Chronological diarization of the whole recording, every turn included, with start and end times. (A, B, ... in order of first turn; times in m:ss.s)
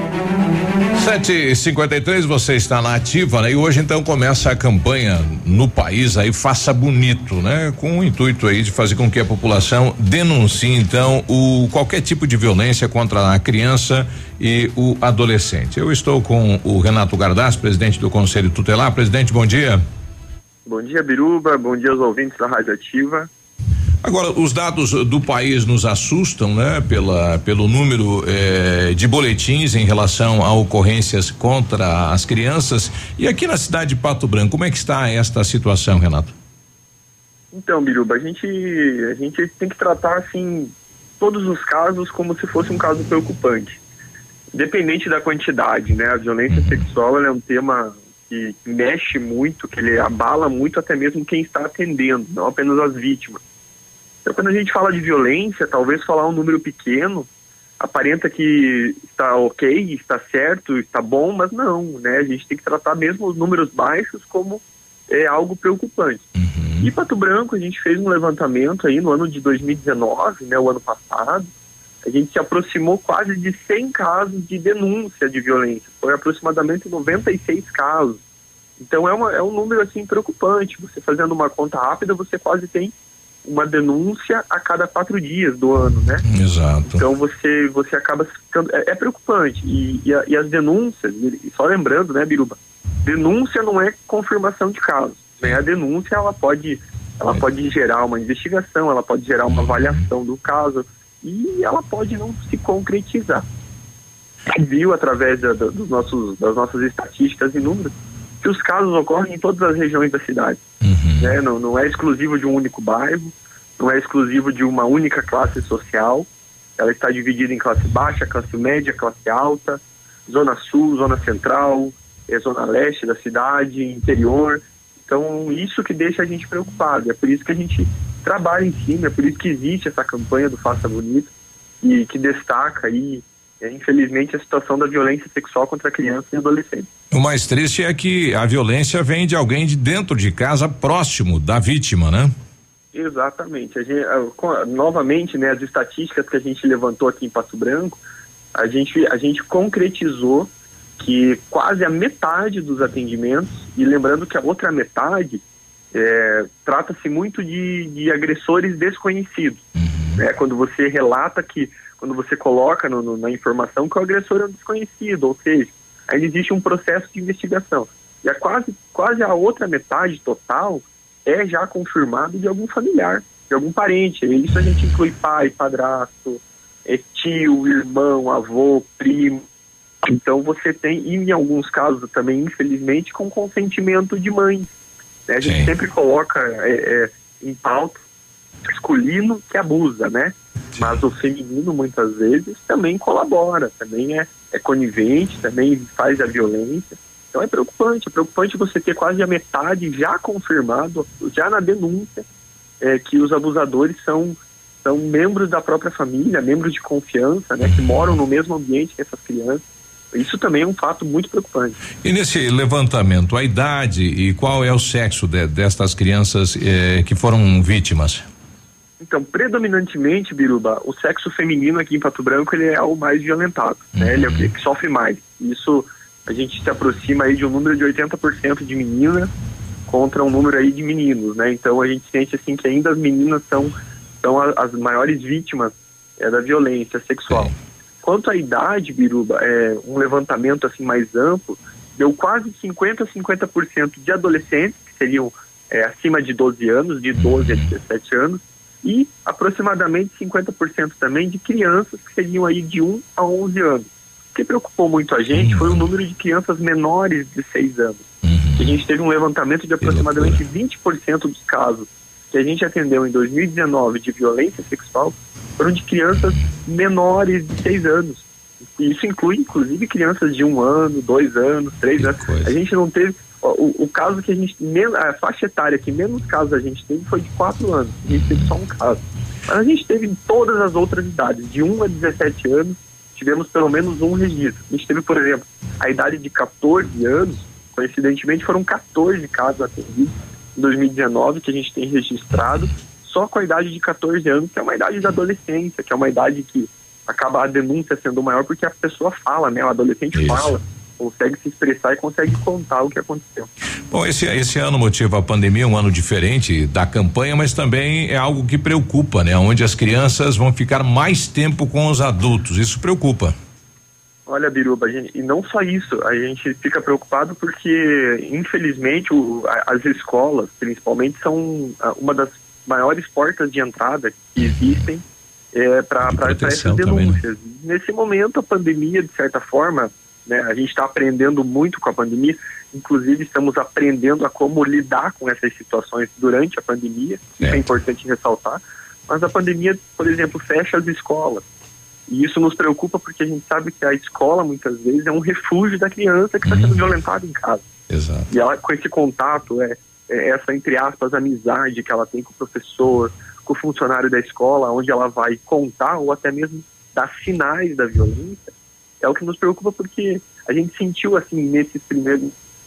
0:01.0-0:19.8 A
0:20.7-0:23.3 B
0:24.0-0:36.3 A
0:37.5-0:43.8 B
0:44.6-0:53.4 B
0:46.5-0:46.8 A
0:54.2-0:57.3 B
0:57.8-1:06.2 B
1:06.4-1:06.9 A
1:06.8-1:11.5 B
1:12.0-1:18.2 B
1:18.8-1:22.9 B
1:23.4-1:26.2 B
1:26.3-1:27.0 A
1:27.0-1:43.4 B
1:39.5-1:40.1 A
1:44.5-1:50.6 B
1:50.8-1:51.4 A
1:51.2-1:56.3 B
1:56.8-2:11.3 B
2:11.8-2:16.9 B
2:17.1-2:22.3 A
2:22.9-2:28.0 B
2:28.6-2:35.4 B
2:35.9-2:39.6 B
2:39.8-2:40.2 A
2:40.2-2:59.4 B
3:00.0-3:04.7 B
3:05.3-3:08.0 B
3:08.7-3:22.2 B
3:22.8-3:31.8 B
3:27.6-3:28.2 A
3:32.0-3:38.2 A
3:39.0-3:49.3 B
3:44.0-3:44.5 A
3:49.9-3:57.5 B
3:58.0-4:18.0 B
4:07.2-4:07.7 A
4:15.3-4:15.9 A
4:18.2-4:18.8 A
4:18.6-4:28.2 B
4:19.8-4:20.4 A
4:28.8-5:03.5 B
4:38.1-4:38.5 A
4:52.4-4:52.7 A
5:00.1-5:00.4 A
5:03.9-5:13.4 A
5:14.3-5:25.0 B
5:24.4-5:24.9 A
5:25.5-5:41.4 B
5:26.0-5:27.2 A
5:42.1-5:47.6 B
5:46.4-5:47.0 A
5:47.9-5:48.3 A
5:48.3-5:58.5 B
5:59.0-6:02.3 B